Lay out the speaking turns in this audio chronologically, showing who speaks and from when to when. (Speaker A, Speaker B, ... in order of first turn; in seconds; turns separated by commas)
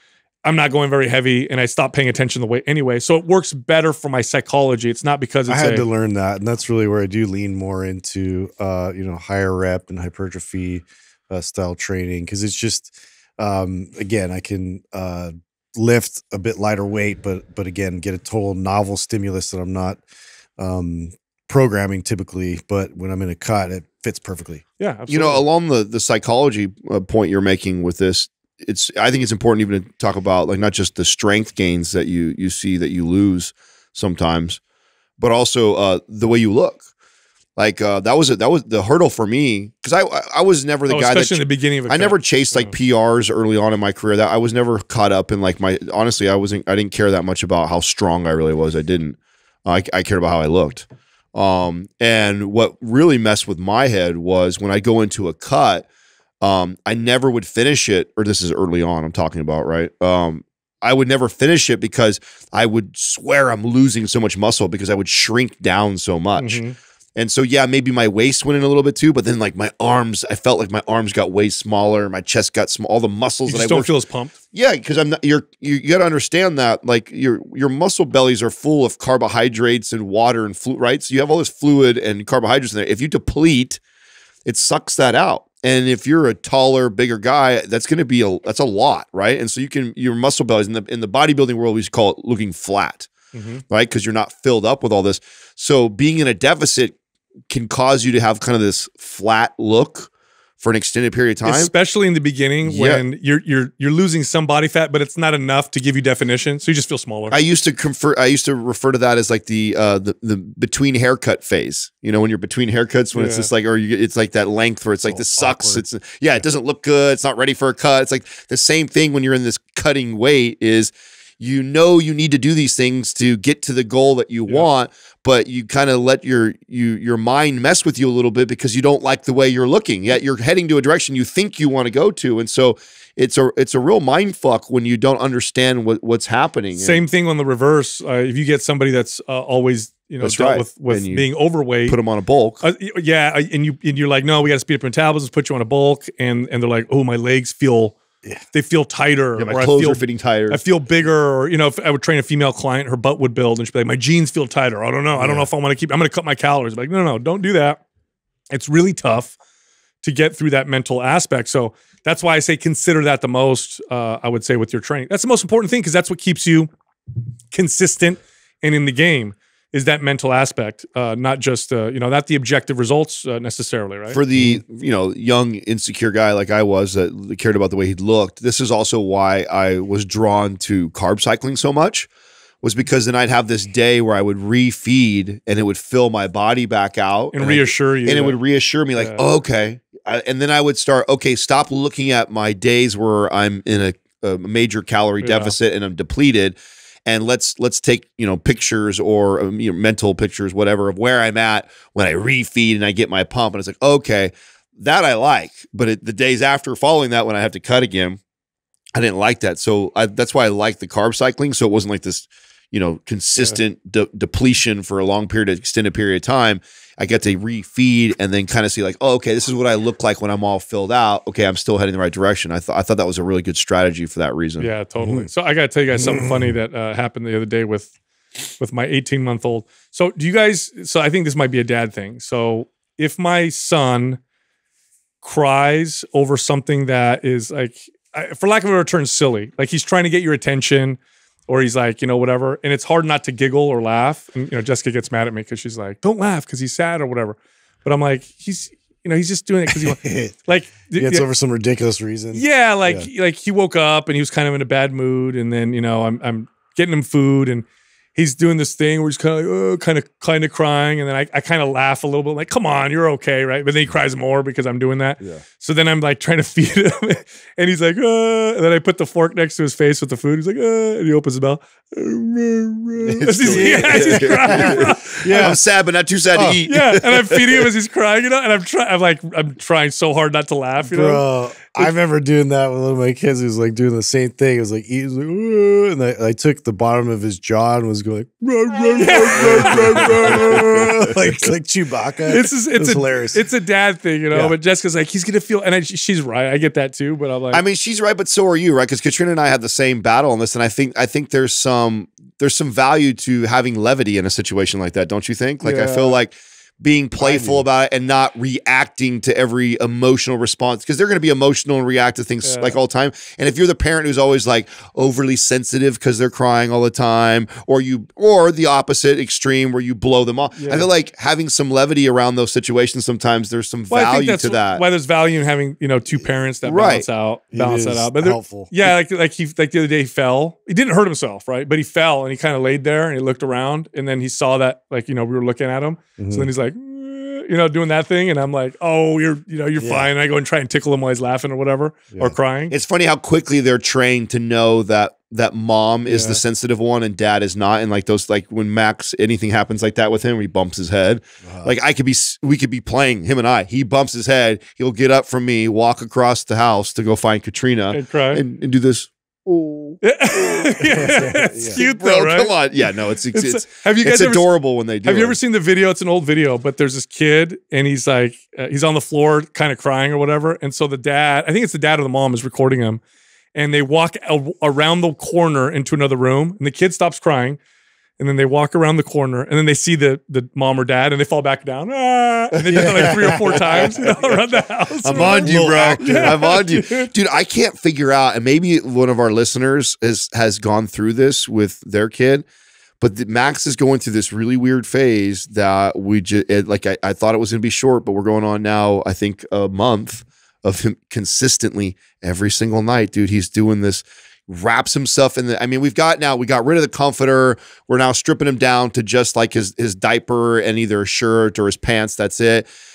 Speaker A: 0.4-5.8, Speaker B: 5.5-20.0, Speaker B: 20.6-24.6, Speaker A: 24.8-25.4, Speaker C: 25.1-34.6, Speaker C: 35.2-36.8, Speaker C: 37.6-55.8, Speaker A: 40.9-42.8, Speaker C: 56.4-66.6, Speaker A: 66.4-66.8, Speaker C: 67.2-73.9, Speaker A: 73.5-74.3, Speaker C: 74.5-83.8, Speaker C: 84.5-93.1, Speaker A: 93.3-93.6, Speaker C: 93.7-97.0, Speaker C: 97.5-101.7, Speaker A: 101.4-107.4, Speaker C: 102.6-103.0, Speaker C: 107.3-137.0, Speaker A: 113.1-113.5, Speaker B: 115.1-115.8, Speaker A: 136.7-142.0, Speaker C: 140.2-141.3, Speaker C: 141.8-142.6, Speaker A: 142.6-147.9, Speaker A: 148.5-157.8, Speaker C: 149.4-150.6, Speaker B: 155.2-155.5, Speaker A: 158.5-159.3, Speaker A: 160.0-166.7, Speaker A: 167.5-174.2, Speaker C: 174.1-182.1, Speaker C: 182.6-208.2, Speaker A: 187.3-188.4, Speaker A: 188.9-189.2, Speaker A: 195.2-195.5, Speaker C: 208.9-224.7, Speaker A: 224.6-227.9, Speaker B: 225.0-225.3, Speaker B: 225.9-226.5, Speaker A: 228.6-234.2, Speaker A: 235.2-251.2, Speaker B: 249.7-250.3, Speaker B: 250.9-253.1, Speaker A: 252.3-275.6, Speaker C: 273.1-277.7, Speaker B: 273.3-275.6, Speaker B: 276.3-276.6, Speaker A: 276.6-281.9, Speaker B: 280.8-293.4, Speaker A: 288.9-290.9, Speaker C: 289.4-290.9, Speaker A: 292.2-297.6, Speaker C: 297.5-324.8, Speaker A: 305.6-306.2, Speaker B: 307.2-307.6, Speaker A: 312.4-312.8, Speaker A: 320.5-320.9, Speaker A: 323.9-342.7, Speaker C: 326.6-327.1, Speaker B: 327.5-328.9, Speaker B: 336.2-336.5, Speaker B: 339.8-340.1, Speaker C: 342.7-365.4, Speaker A: 346.1-346.4, Speaker B: 351.4-351.7, Speaker A: 357.9-358.4, Speaker A: 360.0-364.5, Speaker B: 360.8-361.8, Speaker A: 365.0-373.0, Speaker A: 373.5-377.6, Speaker A: 378.2-387.1, Speaker C: 382.6-384.4, Speaker B: 382.7-384.4, Speaker C: 385.0-392.4, Speaker B: 385.1-386.4, Speaker C: 393.0-412.7